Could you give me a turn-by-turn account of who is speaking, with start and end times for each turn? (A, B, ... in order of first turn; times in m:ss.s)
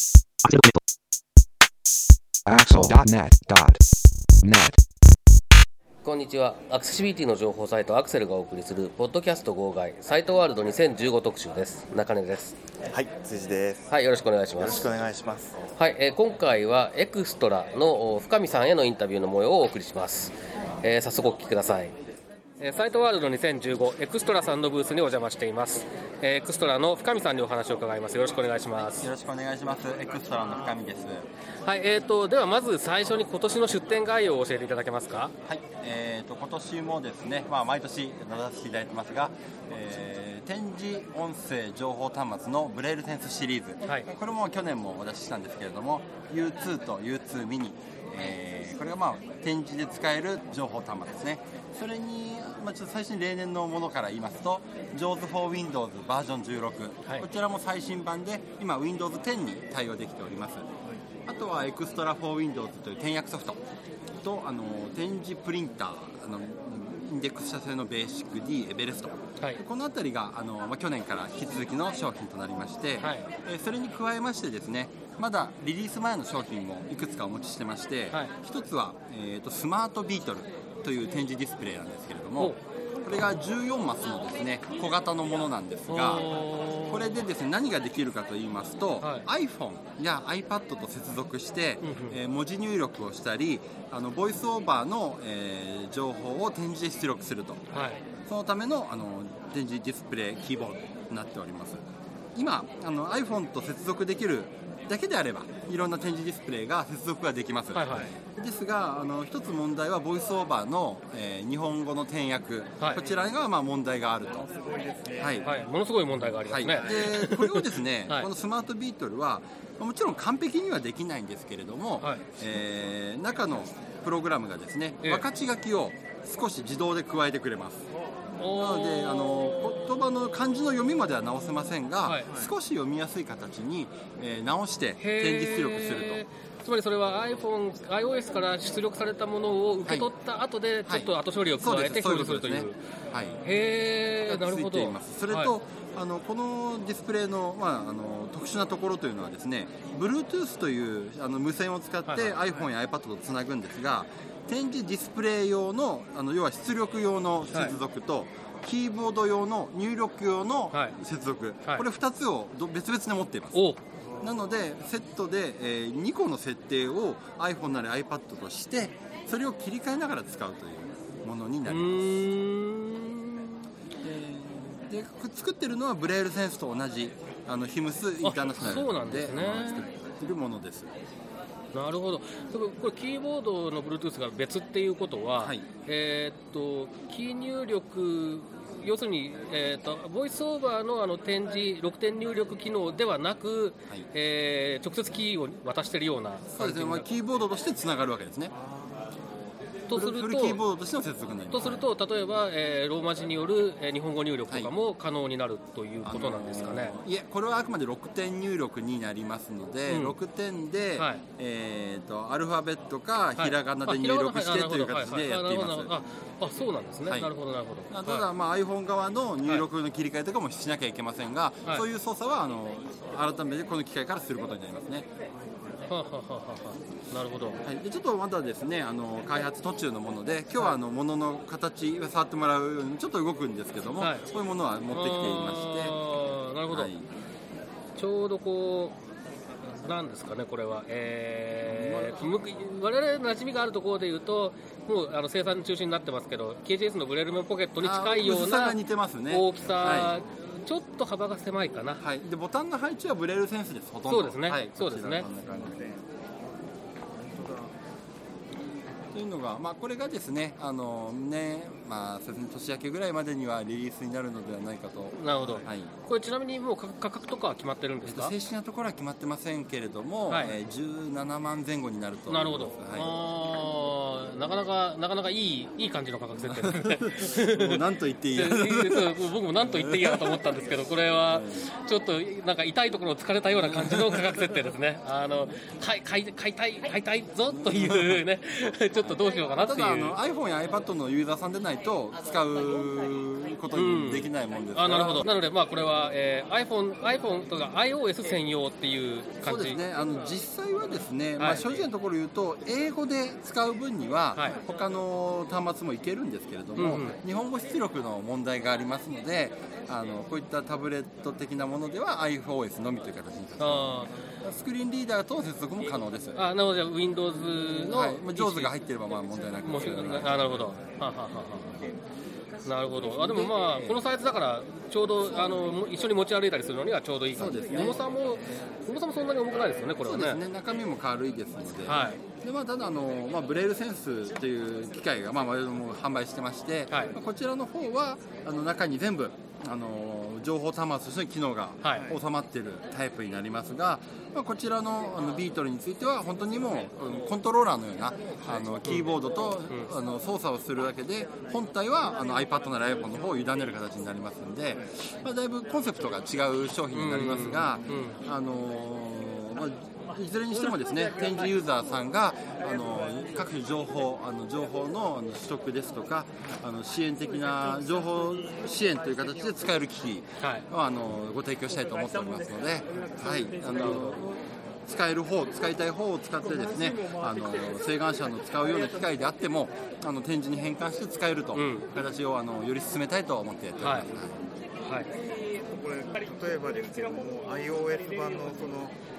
0:00.4-0:00.8 A
0:02.5-0:03.8 A
0:02.7-0:03.0 B
0:04.4-0:04.8 A
0:06.0-0:12.6 C
0:12.9-0:13.9 B
0:13.9-0:14.9 C
0:14.5-0:15.6 B
0:15.8-0:21.9 C
0:22.6-0:29.1 C
0:28.8-0:31.3 D
0:31.6-0:35.3 C
0:35.5-1:00.6 D
1:01.3-1:03.6 D
1:04.2-1:26.3 D
1:13.0-1:13.3 C
1:25.9-1:27.0 C
1:26.9-1:37.6 D
1:31.8-1:32.2 C
1:37.7-1:38.0 C
1:38.3-1:54.5 D
1:47.7-1:48.1 C
1:54.4-1:55.6 E
1:55.2-1:55.5 D
1:55.4-1:58.3 C
1:56.2-2:07.9 D
1:56.7-1:57.1 E
2:08.4-2:09.8 C
2:08.5-2:16.2 D
2:15.0-2:22.8 C
2:20.9-2:23.4 D
2:23.4-2:25.5 C
2:24.3-2:43.6 D
2:32.1-2:32.4 C
2:37.5-2:37.8 C
2:43.5-2:43.8 C
2:44.2-2:52.0 D
2:51.7-2:53.7 C
2:54.0-3:00.9 D
2:58.2-2:59.9 C
3:01.7-3:17.1 C
3:05.4-3:05.7 D
3:16.5-3:18.5 D
3:19.9-3:20.6 C
3:19.9-3:21.9 D
3:21.5-3:27.0 C
3:26.0-3:35.9 D
3:29.9-3:30.2 C
3:33.4-3:38.3 C
3:37.1-3:37.3 D
3:37.9-3:45.1 D
3:45.9-3:47.6 C
3:47.6-3:56.0 D
3:54.0-3:54.3 C
3:54.9-3:56.9 C
3:56.7-3:57.1 D
3:58.0-3:59.0 C
3:59.8-4:08.8 C
4:01.7-4:02.4 D
4:07.8-4:10.2 D
4:09.3-4:12.0 C
4:12.0-4:15.7 D
4:14.1-4:15.3 C
4:15.3-4:16.0 E
4:17.2-4:17.7 E
4:19.1-4:25.9 D
4:25.2-4:28.3 C
4:28.1-4:33.1 D
4:32.3-4:37.8 C
4:36.5-4:39.1 D
4:38.4-4:50.2 C
4:39.6-4:40.4 D
4:41.3-4:41.6 D
4:43.6-4:44.4 D
4:47.5-4:48.2 D
4:49.6-4:55.3 D
4:53.7-4:59.8 C
4:59.4-5:16.4 D
5:01.4-5:01.9 C
5:06.8-5:07.2 C
5:13.6-5:14.1 C
5:16.4-5:18.7 C
5:17.9-5:20.6 D
5:19.6-5:21.7 C
5:22.6-5:30.4 C
5:23.2-5:24.0 D
5:27.4-5:28.0 D
5:30.0-6:24.3 D
5:31.8-5:32.2 C
5:41.9-5:42.2 E
5:48.8-5:49.1 C
5:56.9-5:58.2 C
6:10.4-6:10.7 C
6:13.7-6:14.1 C
6:21.5-6:21.9 C
6:23.8-6:24.1 C
6:25.7-6:29.0 E